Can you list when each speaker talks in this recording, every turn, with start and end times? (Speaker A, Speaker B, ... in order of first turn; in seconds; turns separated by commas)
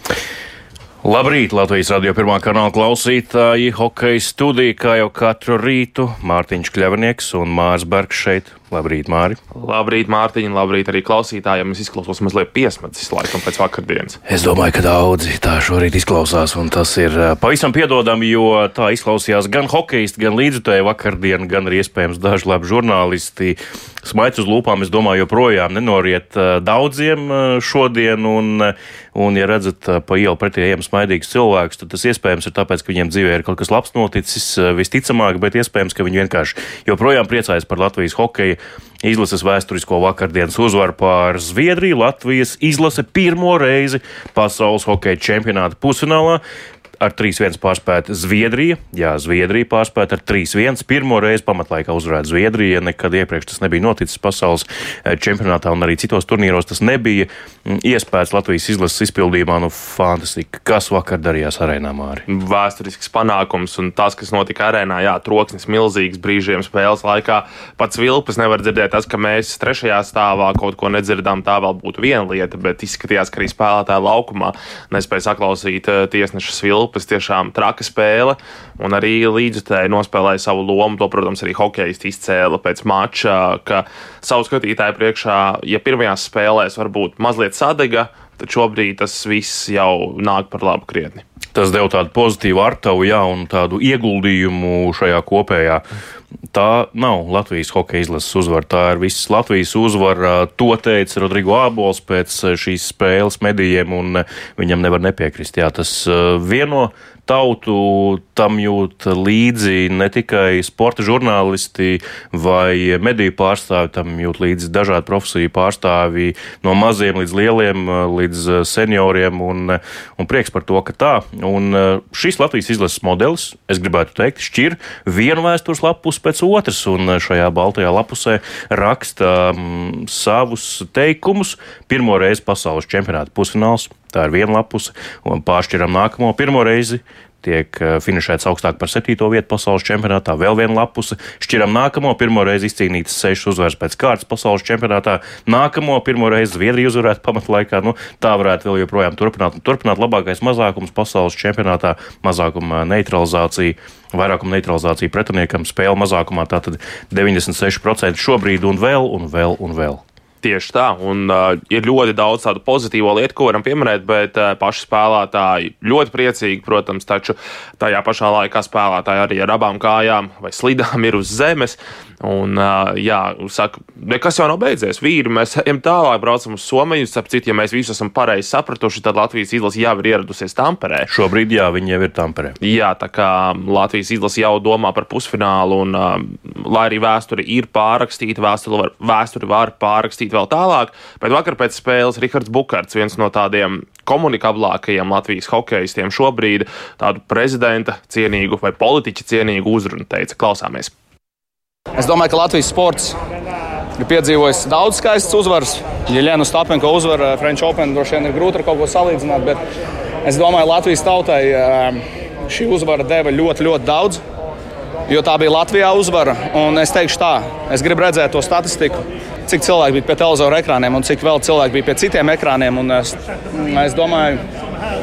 Speaker A: 1.0-9.4, Speaker B: 9.5-14.2, Speaker A: 14.3-46.4, Speaker A: 47.0-62.2, Speaker B: 62.3-91.2, Speaker A: 91.5-95.8, Speaker A: 96.5-160.0, Speaker B: 160.4-181.1, Speaker A: 181.1-182.6, Speaker B: 182.6-200.9, Speaker C: 202.0-203.2, Speaker C: 204.0-209.6, Speaker C: 210.2-214.2, Speaker C: 215.1-224.4